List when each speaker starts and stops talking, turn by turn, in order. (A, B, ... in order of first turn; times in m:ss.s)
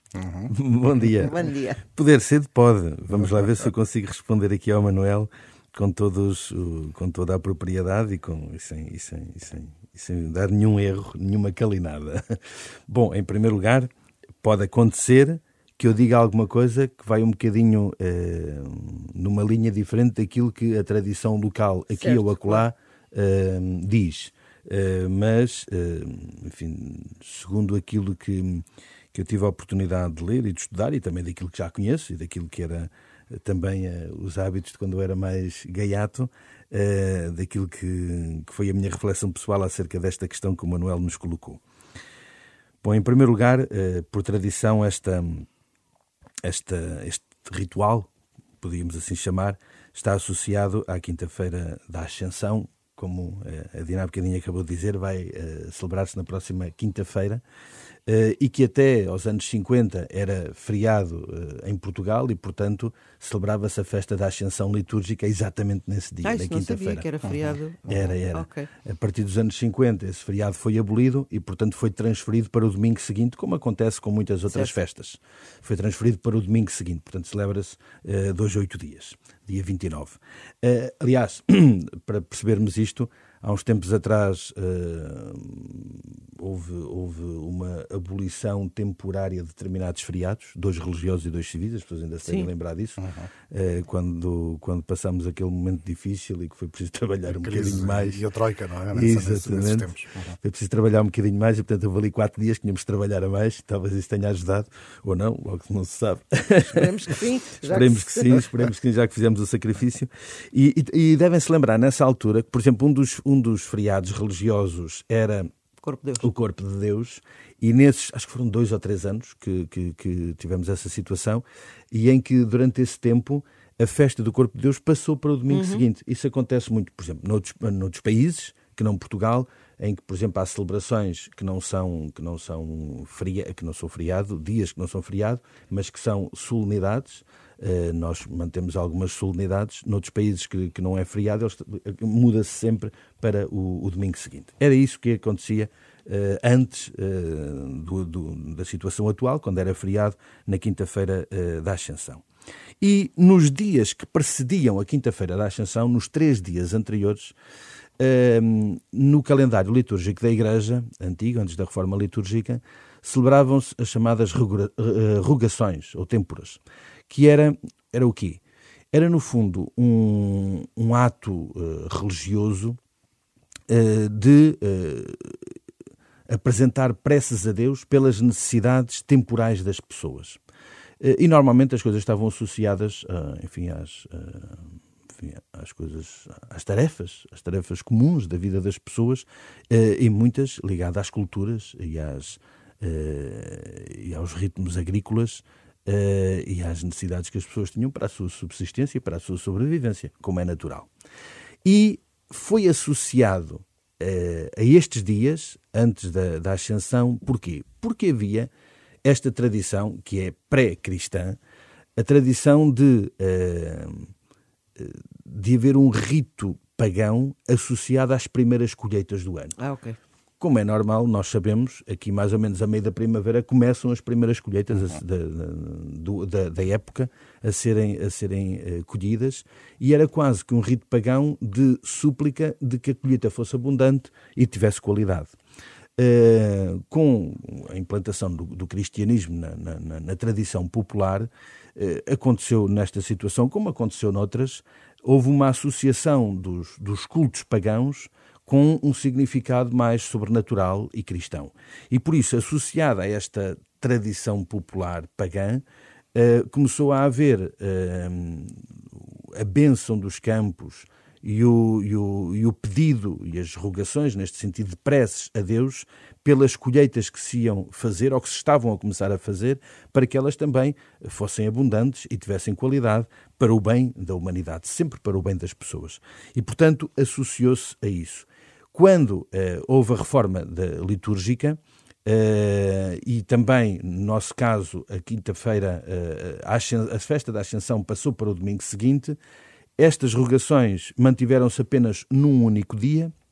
0:00.2-0:00.6 A
0:00.5-0:13.9 B
0:01.0-0:01.8 C
0:14.4-0:41.6 B
0:21.9-0:22.7 C
0:42.8-0:45.5 B
0:46.4-0:48.1 B
0:48.6-0:57.4 B
0:58.1-1:07.0 B
1:06.2-1:08.7 C
1:07.2-1:07.5 A
1:07.9-1:38.2 B
1:14.5-1:14.8 C
1:32.2-1:32.5 C
1:33.0-1:33.3 A
1:37.3-1:40.4 A
1:38.9-1:46.9 B
1:46.7-1:48.5 C
1:47.6-1:55.5 B
1:55.8-1:56.3 C
1:56.2-2:32.2 B
2:05.5-2:05.9 C
2:32.8-2:37.4 B
2:38.0-2:48.4 B
2:48.9-2:52.8 B
2:53.7-2:55.5 B
2:56.3-3:00.4 B
3:01.0-3:20.9 B
3:21.6-3:28.5 B
3:29.0-3:31.4 B
3:32.0-3:34.1 B
3:34.8-3:39.6 B
3:39.6-3:40.0 C
3:40.4-3:55.4 B
3:56.0-4:15.6 B
4:16.1-4:49.2 B
4:49.8-4:53.1 B